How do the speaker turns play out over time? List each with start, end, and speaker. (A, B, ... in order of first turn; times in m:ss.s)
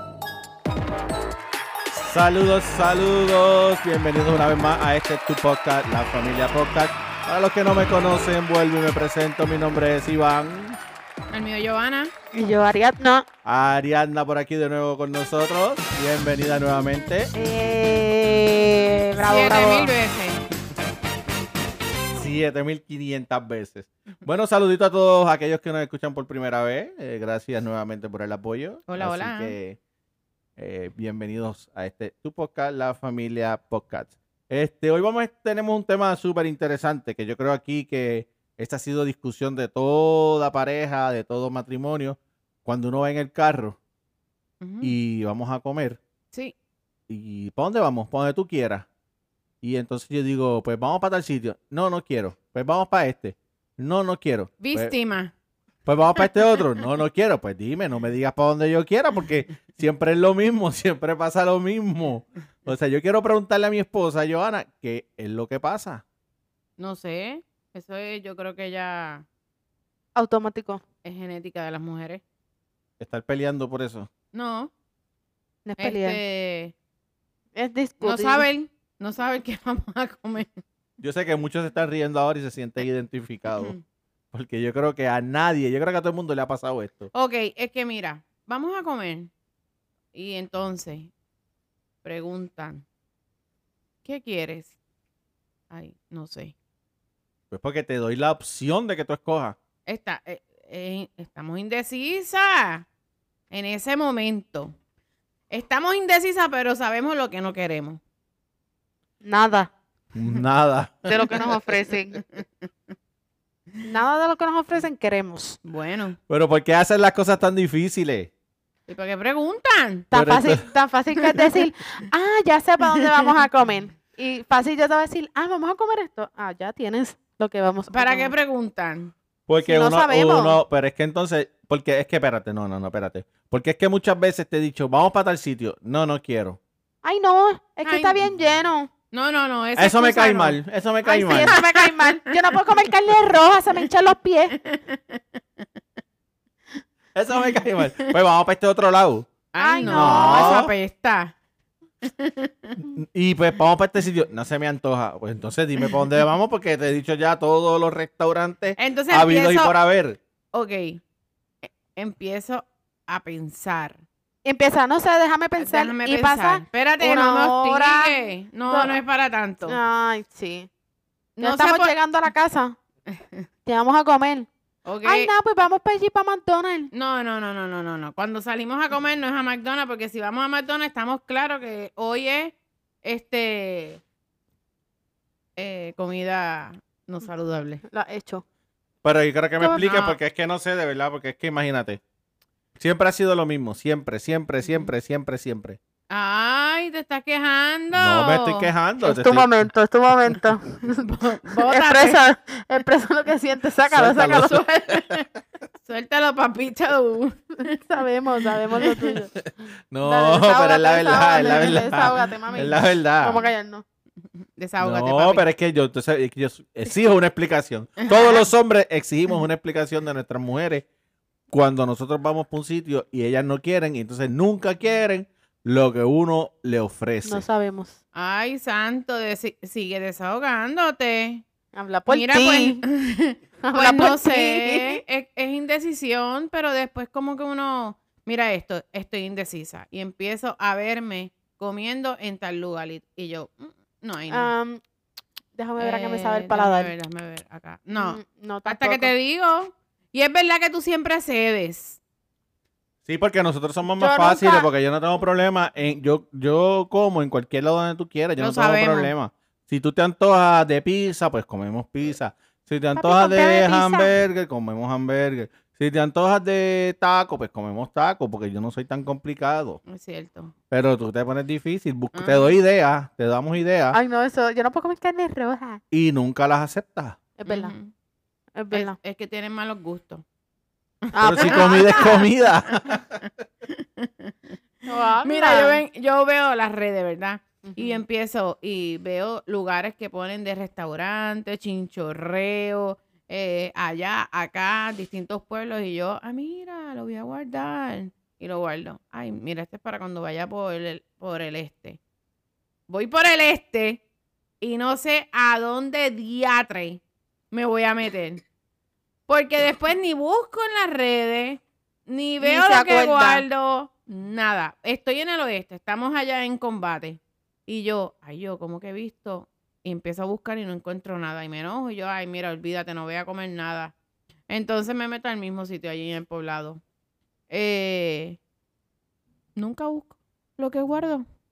0:01.9-0:10.8 A
0:11.3-0:12.1 B
0:12.3-0:13.2 C
0:13.4-0:17.3 A
0:17.3-0:19.9 C
0:19.2-0:20.4 B
0:22.1-0:29.8 A
0:28.9-0:29.5 B
0:30.6-0:43.8 A
0:44.6-0:44.9 B
0:44.8-0:46.0 A
0:47.1-0:48.9 A
0:49.6-0:54.9 A
0:54.6-0:55.3 B
0:55.8-1:06.0 A
1:06.8-1:09.2 B
1:10.1-1:10.8 C
1:11.0-1:12.2 B
1:13.0-1:14.1 A
1:14.3-1:14.7 B
1:15.6-1:16.2 C
1:15.8-1:16.7 B
1:17.5-1:18.5 C
1:18.0-1:20.6 B
1:21.0-1:23.7 A
1:23.6-1:23.8 B
1:24.3-1:27.1 A
1:27.1-1:29.3 B
1:30.1-1:31.1 B
1:32.0-1:32.8 B
1:34.0-1:34.7 B
1:35.7-1:36.5 B
1:37.5-1:39.6 A
1:39.9-1:42.8 B
1:43.5-1:44.7 B
1:45.5-1:48.0 B
1:49.2-1:49.7 C
1:50.1-1:51.6 A
1:51.1-1:52.2 C
1:53.8-1:55.6 C
1:55.6-1:56.2 B
1:56.3-1:58.3 A
1:58.9-2:00.1 B
2:00.1-2:00.6 A
2:00.1-2:08.3 C
2:07.9-2:09.1 B
2:09.5-2:16.6 A
2:09.6-2:10.6 C
2:17.0-2:18.9 C
2:17.8-2:18.2 B
2:19.1-2:20.6 B
2:19.8-2:21.5 A
2:21.0-2:24.6 C
2:21.5-2:22.5 B
2:24.6-2:25.6 B
2:27.1-2:29.3 A
2:29.5-2:31.3 B
2:29.6-2:30.7 C
2:29.9-2:30.7 A
2:32.0-2:32.8 B
2:32.9-2:40.2 A
2:38.8-2:39.7 B
2:40.5-2:41.0 B
2:41.6-2:44.0 B
2:44.4-2:48.2 C
2:45.6-2:49.8 B
2:48.7-2:49.0 C
2:49.6-2:50.7 C
2:51.4-2:51.9 B
2:51.4-2:52.8 C
2:53.1-2:53.4 B
2:53.6-2:54.5 C
2:54.8-2:55.3 B
2:55.0-2:56.9 C
2:56.9-3:04.0 B
3:05.6-3:07.8 B
3:07.9-3:08.4 C
3:09.0-3:12.0 A
3:09.7-3:10.2 B
3:12.8-3:15.8 A
3:16.1-3:18.7 B
3:17.9-3:19.6 A
3:19.0-3:25.0 C
3:21.0-3:22.2 B
3:23.8-3:25.1 A
3:24.9-3:25.2 B
3:25.8-3:27.8 B
3:27.7-3:29.3 C
3:28.4-3:29.2 B
3:29.9-3:33.4 A
3:30.0-3:33.8 C
3:31.5-3:32.7 B
3:34.6-3:35.5 B
3:34.8-3:40.8 A
3:38.0-3:38.4 B
3:41.5-3:47.4 A
3:47.2-3:48.0 C
3:48.1-3:51.4 B
3:51.7-3:52.8 C
3:52.1-4:04.5 B
3:53.6-3:55.0 C
4:04.3-4:04.8 C
4:05.6-4:06.9 C
4:05.8-4:12.0 B
4:08.0-4:09.1 C
4:13.0-4:29.8 A
4:14.0-4:14.7 C
4:18.4-4:19.1 B
4:23.0-4:24.1 C
4:29.8-4:30.5 B
4:30.7-4:34.0 A
4:32.1-4:32.6 B
4:33.9-4:35.8 C
4:35.9-4:37.2 A
4:37.4-4:37.7 C
4:37.5-4:37.9 B
4:38.5-4:39.0 C
4:38.7-4:40.2 B
4:41.0-4:43.0 B
4:41.1-4:42.3 C
4:41.2-4:43.2 A
4:43.6-4:44.5 B
4:44.8-4:45.8 C
4:45.2-5:02.0 B
4:47.6-4:48.0 C
5:02.9-5:04.0 B
5:04.6-5:08.4 B
5:09.3-5:23.9 B
5:12.4-5:13.4 C
5:24.5-5:26.8 B
5:27.5-5:28.4 B
5:29.6-5:31.2 B